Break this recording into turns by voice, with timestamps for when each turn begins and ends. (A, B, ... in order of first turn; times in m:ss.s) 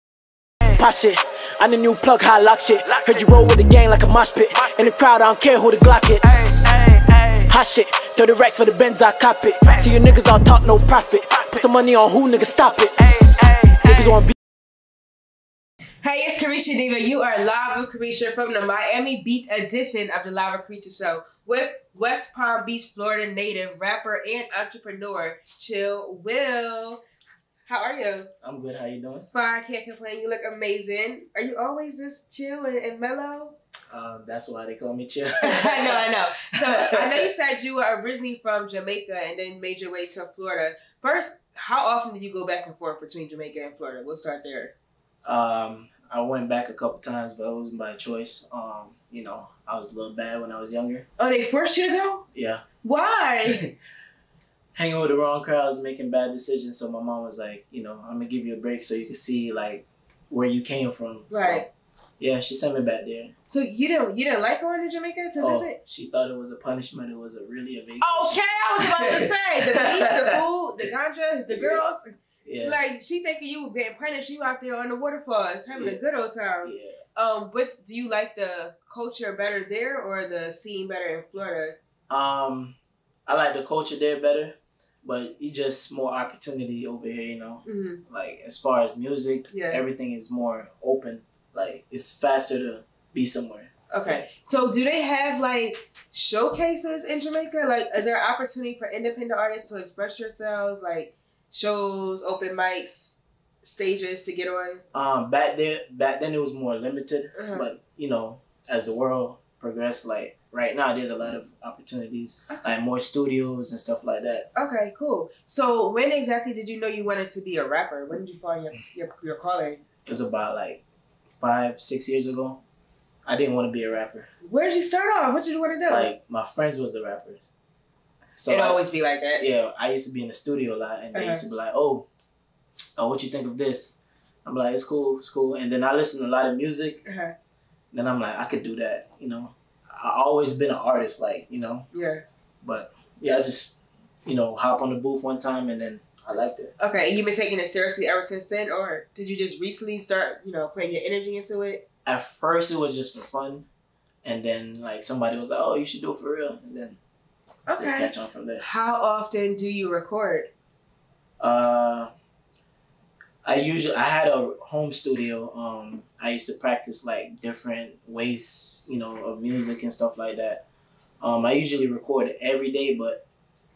0:00.6-0:06.7 A
0:07.3-0:13.0 A
0:13.7-0:14.3 A
0:16.0-0:27.0 B
0:27.6-0:28.3 B
0:28.4-0:29.3 A
0:29.3-0:33.6 B
0:33.9-0:37.3 A
0:35.4-0:44.7 B
0:45.2-0:51.0 A
0:51.2-0:52.2 B
0:52.3-0:52.6 A
0:52.8-0:53.6 B
0:53.4-0:53.7 A
0:54.7-1:03.3 A
1:01.3-1:01.6 B
1:03.5-1:05.8 B
1:05.4-1:10.4 A
1:08.0-1:21.8 B
1:11.5-1:11.8 A
1:12.4-1:12.8 A
1:15.7-1:16.0 A
1:16.6-1:17.0 A
1:22.1-1:34.2 A
1:27.6-1:28.0 B
1:29.5-1:29.8 B
1:33.9-1:44.8 B
1:44.9-1:54.5 A
1:47.3-1:47.7 B
1:54.5-1:59.8 B
2:00.0-2:00.8 A
2:01.4-2:02.6 A
2:03.2-2:04.3 A
2:04.4-2:06.1 B
2:05.9-2:07.4 A
2:08.4-2:08.8 A
2:08.5-2:09.5 B
2:09.4-2:12.1 A
2:11.1-2:11.4 B
2:13.0-2:17.0 A
2:17.0-2:17.3 B
2:17.9-2:21.8 A
2:21.9-2:22.2 B
2:22.6-2:26.7 A
2:26.8-2:31.8 B
2:32.0-2:33.7 A
2:34.2-2:37.0 A
2:37.7-2:40.5 B
2:37.8-2:38.6 A
2:41.4-2:42.1 A
2:43.4-2:50.6 A
2:51.2-2:53.2 A